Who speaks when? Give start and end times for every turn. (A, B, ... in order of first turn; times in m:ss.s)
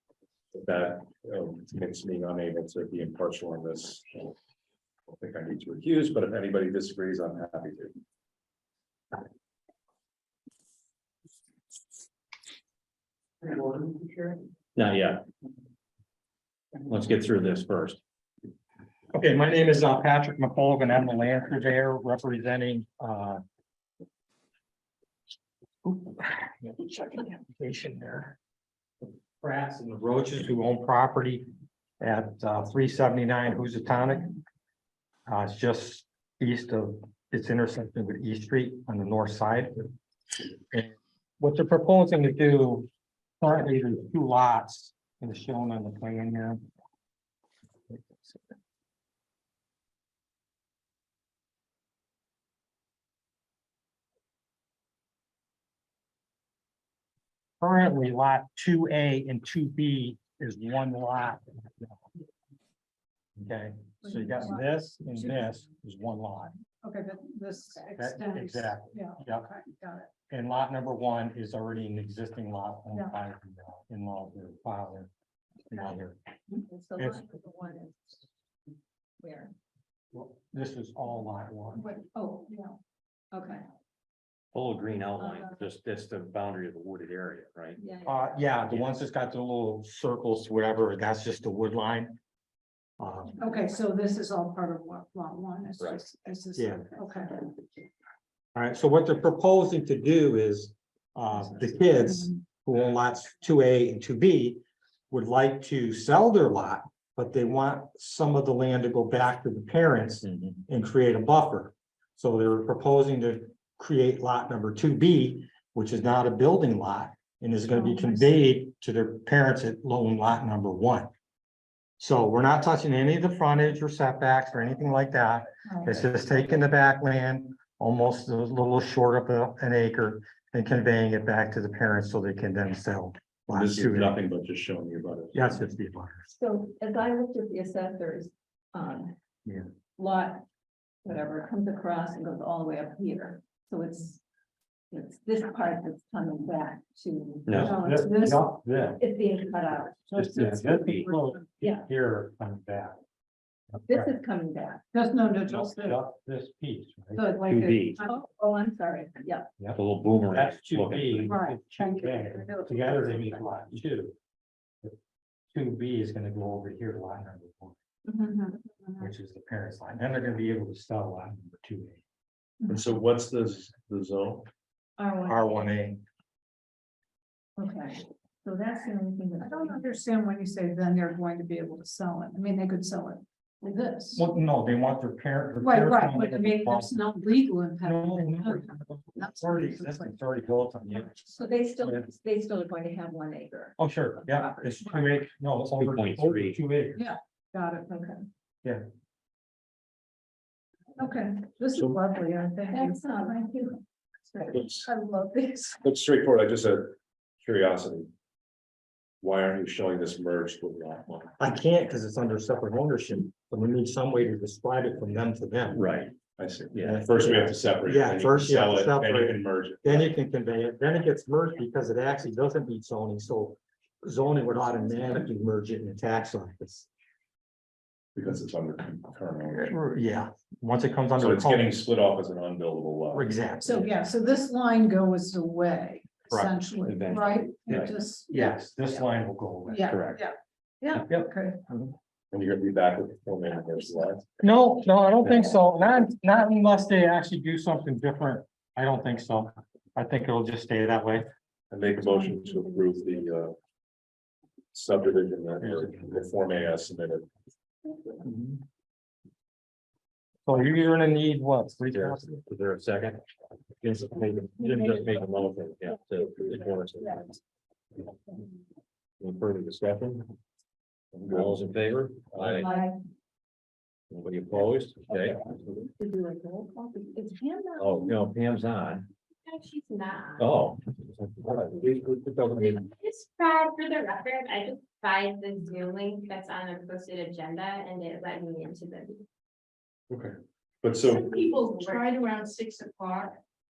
0:00.5-0:04.3 A
0:05.1-0:08.0 A
0:14.8-0:15.2 B
0:16.8-0:18.0 B
0:19.1-0:23.4 C
0:25.8-0:28.4 C
0:29.4-0:31.4 C
0:32.0-0:34.3 C
0:35.3-0:39.9 C
0:40.7-0:42.9 C
0:43.4-0:46.6 C
0:47.9-0:48.4 C
0:57.6-1:02.0 C
1:03.4-1:06.6 C
1:04.0-1:04.6 D
1:05.1-1:05.5 D
1:06.8-1:10.1 D
1:08.0-1:09.5 C
1:10.3-1:15.1 C
1:15.7-1:16.2 C
1:16.5-1:18.2 E
1:17.0-1:17.2 C
1:19.2-1:19.5 E
1:20.1-1:21.9 C
1:21.8-1:22.8 D
1:23.3-1:23.6 E
1:24.5-1:27.8 B
1:27.8-1:28.4 E
1:28.1-1:32.2 C
1:28.7-1:29.0 B
1:33.0-1:33.4 C
1:33.4-1:37.4 D
1:35.8-1:36.0 B
1:36.6-1:36.9 C
1:38.6-2:01.1 C
1:41.4-1:42.4 D
1:50.2-1:50.6 B
1:57.7-1:58.3 D
2:02.0-2:14.2 C
2:05.7-2:06.1 D
2:13.5-2:15.5 A
2:15.3-2:16.3 C
2:16.3-2:19.1 E
2:20.0-2:20.4 E
2:21.0-2:24.2 E
2:24.9-2:27.7 E
2:27.5-2:27.8 B
2:27.5-2:29.0 C
2:27.6-2:28.5 D
2:29.0-2:30.1 E
2:30.1-2:31.4 D
2:30.2-2:33.0 C
2:30.2-2:31.1 B
2:31.6-2:31.9 E
2:33.8-2:34.1 C
2:33.9-2:34.8 E
2:34.9-2:36.0 D
2:35.5-2:37.3 C
2:37.2-2:38.2 D
2:37.4-2:38.0 B
2:38.0-2:39.5 E
2:39.6-2:44.1 C
2:39.7-2:41.4 B
2:41.2-2:43.5 D
2:45.5-2:47.8 C
2:48.1-2:49.0 D
2:49.0-2:52.0 C
2:52.7-2:54.5 A
2:55.0-2:55.4 D
2:55.2-2:56.0 C
2:57.6-2:59.9 E
2:59.4-3:04.2 D
3:04.2-3:07.0 C
3:05.6-3:10.1 D
3:07.8-3:12.0 C
3:11.3-3:14.9 E
3:13.8-3:17.0 C
3:14.9-3:15.1 D
3:15.7-3:16.6 B
3:17.0-3:18.0 D
3:17.9-3:18.2 E
3:21.0-3:23.4 D
3:22.7-3:24.6 E
3:24.5-3:25.8 D
3:25.8-3:28.1 A
3:29.2-3:31.3 A
3:31.4-3:35.8 C
3:35.7-3:36.2 B
3:36.4-3:40.1 A
3:36.7-3:37.2 B
3:36.8-3:46.9 C
3:48.2-3:49.8 A
3:49.5-3:51.8 C
3:51.2-3:53.3 A
3:53.1-3:53.8 C
3:53.6-3:59.0 D
3:56.8-3:58.0 B
3:58.3-3:59.9 C
3:59.7-4:01.6 D
3:59.9-4:00.2 B
4:01.1-4:02.0 C
4:02.3-4:04.4 A
4:04.4-4:11.3 C
4:11.7-4:13.6 A
4:14.7-4:17.3 A
4:15.6-4:16.0 C
4:18.2-4:18.6 C
4:20.5-4:22.4 C
4:21.9-4:23.2 B
4:23.8-4:27.4 B
4:29.2-4:30.3 B
4:31.1-4:31.6 A
4:31.3-4:32.7 B
4:34.1-4:35.9 B
4:36.0-4:38.1 E
4:37.8-4:39.1 B
4:39.4-4:40.5 F
4:40.4-4:42.9 B
4:42.6-4:49.2 F
4:50.1-4:51.4 A
4:51.0-4:53.4 G
4:51.5-4:52.0 F